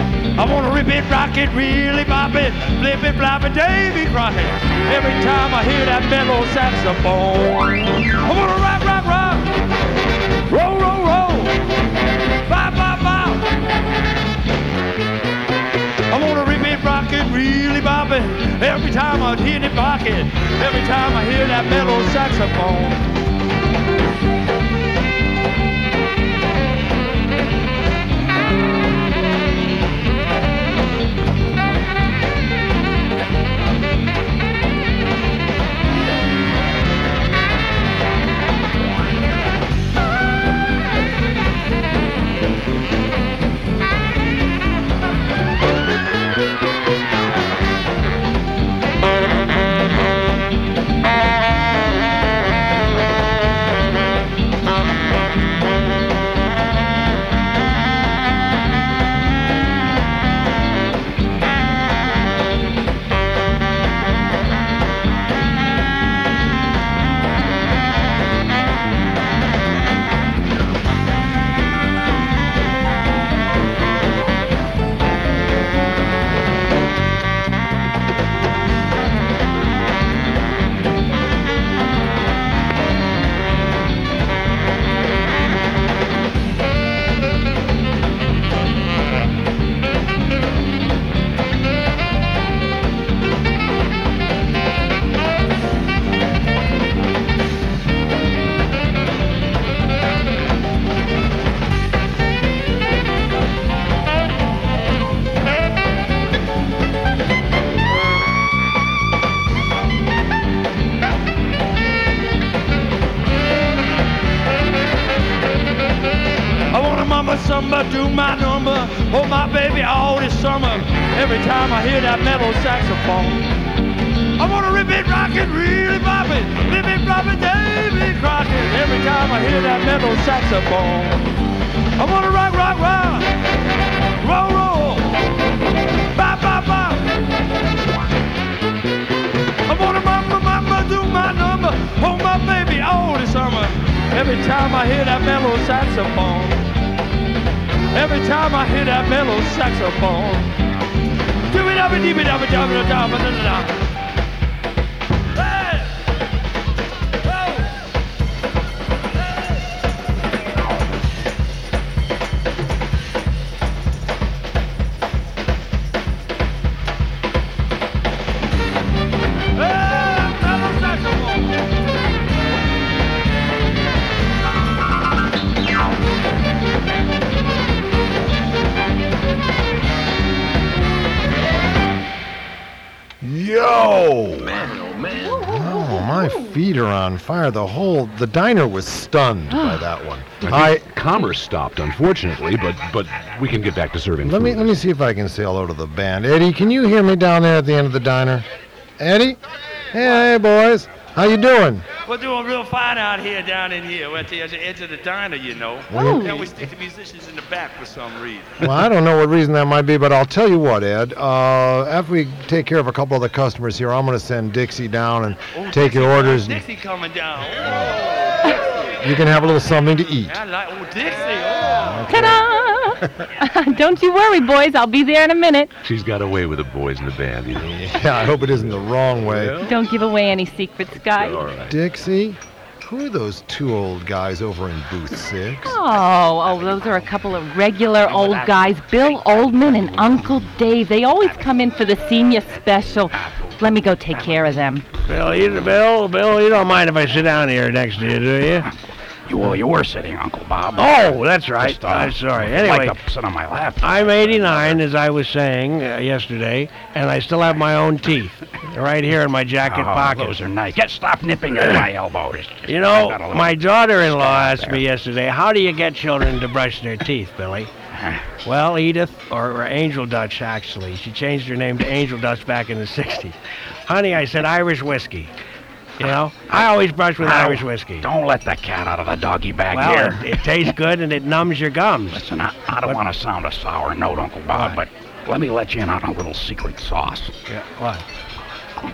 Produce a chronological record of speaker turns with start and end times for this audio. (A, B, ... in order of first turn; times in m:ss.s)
0:00.4-0:09.5 A
0:10.5-0:11.6 A
0:12.5-0:13.5 A
0:16.1-0:23.0 A
1:56.7-2:03.5 A
2:04.4-2:11.2 A
2:12.0-2:13.3 A
2:14.2-2:15.2 A
2:16.1-2:17.1 A
2:19.7-2:26.6 A
2:27.9-2:30.5 A
2:31.5-2:33.8 A
2:35.4-2:35.9 A
2:37.3-2:37.6 A
2:49.6-2:51.5 A
3:03.2-3:04.7 B
3:05.1-3:06.6 C
3:05.4-3:10.8 B
3:09.5-3:09.9 C
3:10.5-3:14.6 D
3:14.2-3:18.5 B
3:19.0-3:19.4 B
3:19.9-3:21.9 B
3:22.1-3:28.6 A
3:25.9-3:26.5 C
3:25.9-3:26.3 B
3:28.6-3:36.6 B
3:35.5-3:38.4 A
3:39.0-3:40.4 B
3:40.3-3:41.9 A
3:41.6-3:42.5 B
3:42.1-3:45.7 C
3:45.8-3:47.7 D
3:47.5-3:49.6 B
3:48.5-3:49.7 D
3:49.6-3:51.5 C
3:51.2-3:51.7 D
3:51.6-3:55.8 B
3:55.6-4:04.9 C
4:05.1-4:08.7 E
4:09.3-4:14.8 F
4:10.8-4:13.0 E
4:13.8-4:20.4 E
4:19.6-4:24.8 F
4:22.7-4:27.7 E
4:27.9-4:28.3 F
4:28.4-4:35.3 E
4:36.0-4:38.1 E
4:37.2-4:40.5 F
4:39.7-4:42.2 E
4:42.1-4:47.4 F
4:44.5-4:44.8 E
4:47.5-4:48.0 E